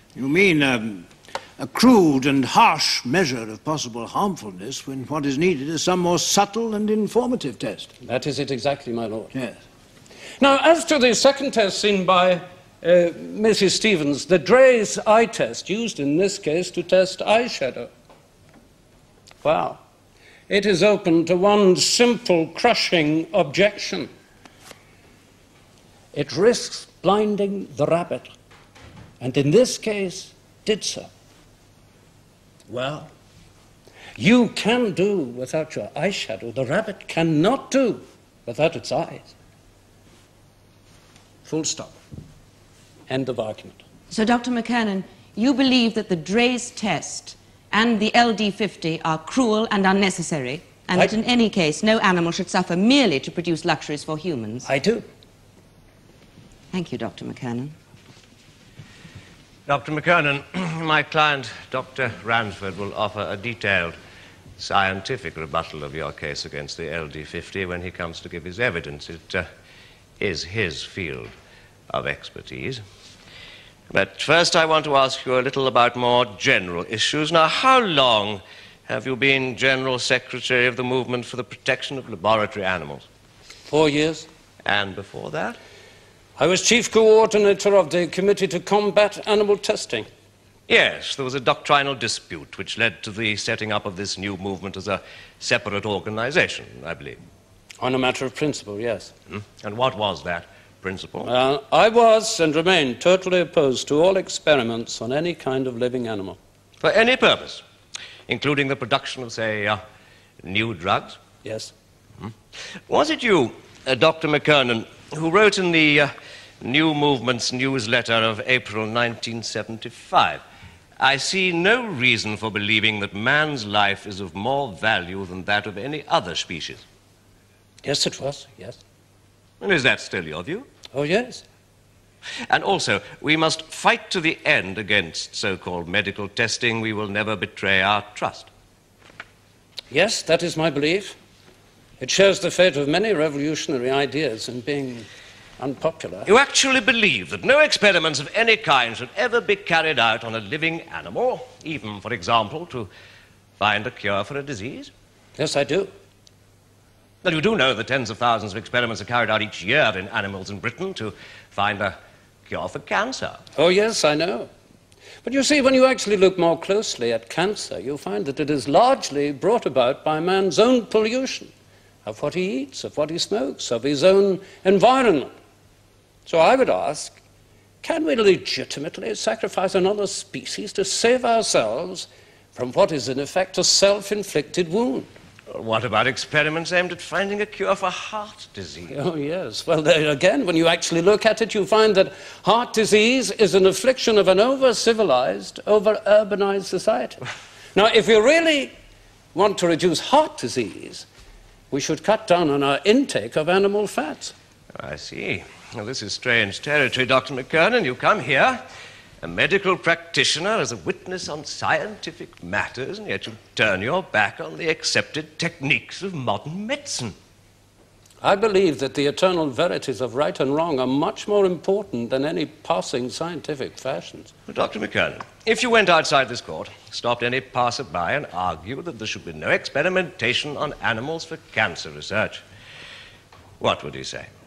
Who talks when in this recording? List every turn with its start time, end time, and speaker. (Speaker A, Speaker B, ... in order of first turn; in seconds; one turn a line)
Speaker A: 0.2-7.9
Speaker B: 8.0-9.3
Speaker B: 10.4-17.9
Speaker B: 19.4-19.8
Speaker B: 20.5-24.1
Speaker B: 26.1-28.3
Speaker B: 29.2-31.1
Speaker B: 32.7-33.1
Speaker B: 34.2-39.3
Speaker B: 41.5-42.0
Speaker B: 43.1-43.8
Speaker C: 44.1-54.7
Speaker B: 54.6-55.1
Speaker C: 56.7-57.8
Speaker D: 59.7-64.0
Speaker D: 64.6-69.5
Speaker D: 70.2-71.3
Speaker D: 71.9-72.8
Speaker D: 73.9-83.1
Speaker B: 83.7-84.3
Speaker D: 84.6-85.6
Speaker B: 86.4-90.1
Speaker D: 90.7-97.2
Speaker B: 97.8-99.1
Speaker D: 99.3-101.3
Speaker B: 101.2-106.4
Speaker D: 106.8-107.6
Speaker D: 108.3-109.8
Speaker D: 110.4-111.2
Speaker B: 111.4-111.7
Speaker D: 112.9-120.4
Speaker D: 121.0-126.8
Speaker B: 127.8-128.8
Speaker D: 129.6-130.7
Speaker B: 130.9-131.4
Speaker D: 132.5-138.5
Speaker B: 139.9-141.2
Speaker B: 142.0-145.1
Speaker B: 145.6-146.3
Speaker D: 146.3-152.9
Speaker D: 153.6-154.9
Speaker B: 155.4-155.9
Speaker D: 157.2-162.0
Speaker D: 162.5-163.4
Speaker B: 163.6-164.5
Speaker B: 165.2-171.5
Speaker B: 172.1-175.3
Speaker B: 176.3-177.2
Speaker B: 177.8-185.1
Speaker D: 185.5-188.9
Speaker B: 188.9-197.2
Speaker B: 197.7-198.7
Speaker B: 199.3-201.1
Speaker B: 201.7-204.3
Speaker D: 204.8-208.6
Speaker D: 209.2-217.1
Speaker B: 218.2-224.3
Speaker D: 224.5-232.4
Speaker D: 233.6-234.3